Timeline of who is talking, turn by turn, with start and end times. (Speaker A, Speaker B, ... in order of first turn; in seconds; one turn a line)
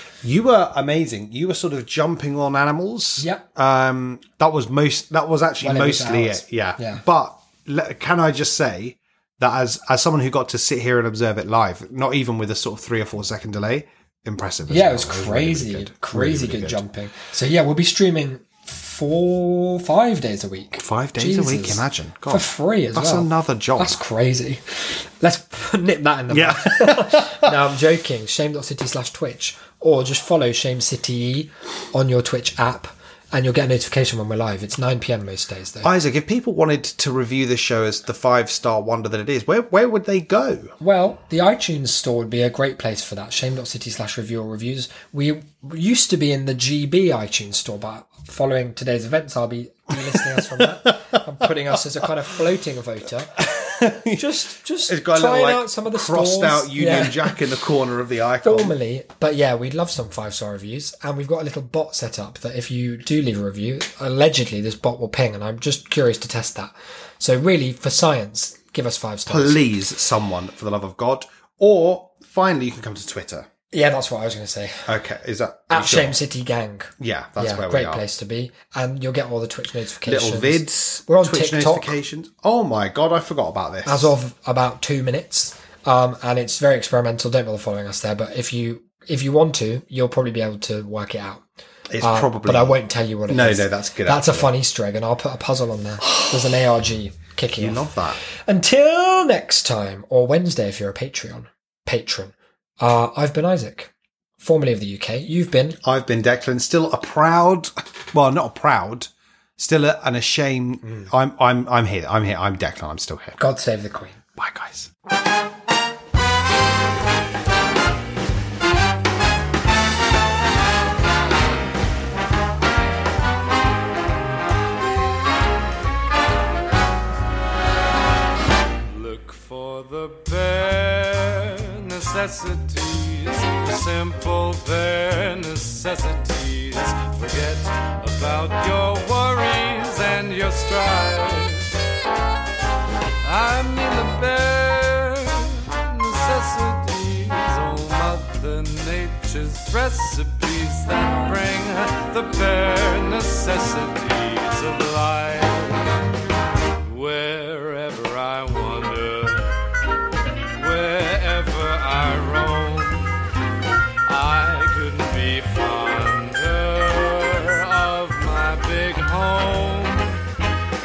Speaker A: 0.2-16.9
Speaker B: 3.2-3.5
Speaker B: 5.6-7.0
Speaker B: 14.7-35.9
Speaker A: 20.8-24.0
Speaker A: 26.3-27.6
Speaker A: 35.8-40.8
Speaker B: 40.8-53.4
Speaker A: 50.3-52.1
Speaker A: 53.4-58.8
Speaker B: 54.1-57.4
Speaker B: 58.4-69.6
Speaker A: 69.3-73.5
Speaker B: 73.7-74.9
Speaker A: 74.9-76.2
Speaker B: 75.7-81.9
Speaker A: 77.0-78.0
Speaker A: 80.0-84.1
Speaker B: 83.8-91.4
Speaker A: 91.9-92.8
Speaker B: 92.0-97.9
Speaker A: 93.3-94.5
Speaker A: 96.1-96.4
Speaker A: 97.6-98.2
Speaker B: 98.5-105.8
Speaker A: 105.8-113.4
Speaker B: 110.8-111.1
Speaker B: 113.4-114.2
Speaker A: 114.4-114.9
Speaker C: 128.9-141.8
Speaker C: 143.2-155.9
Speaker C: 156.8-159.6
Speaker C: 160.6-163.2
Speaker C: 164.1-170.2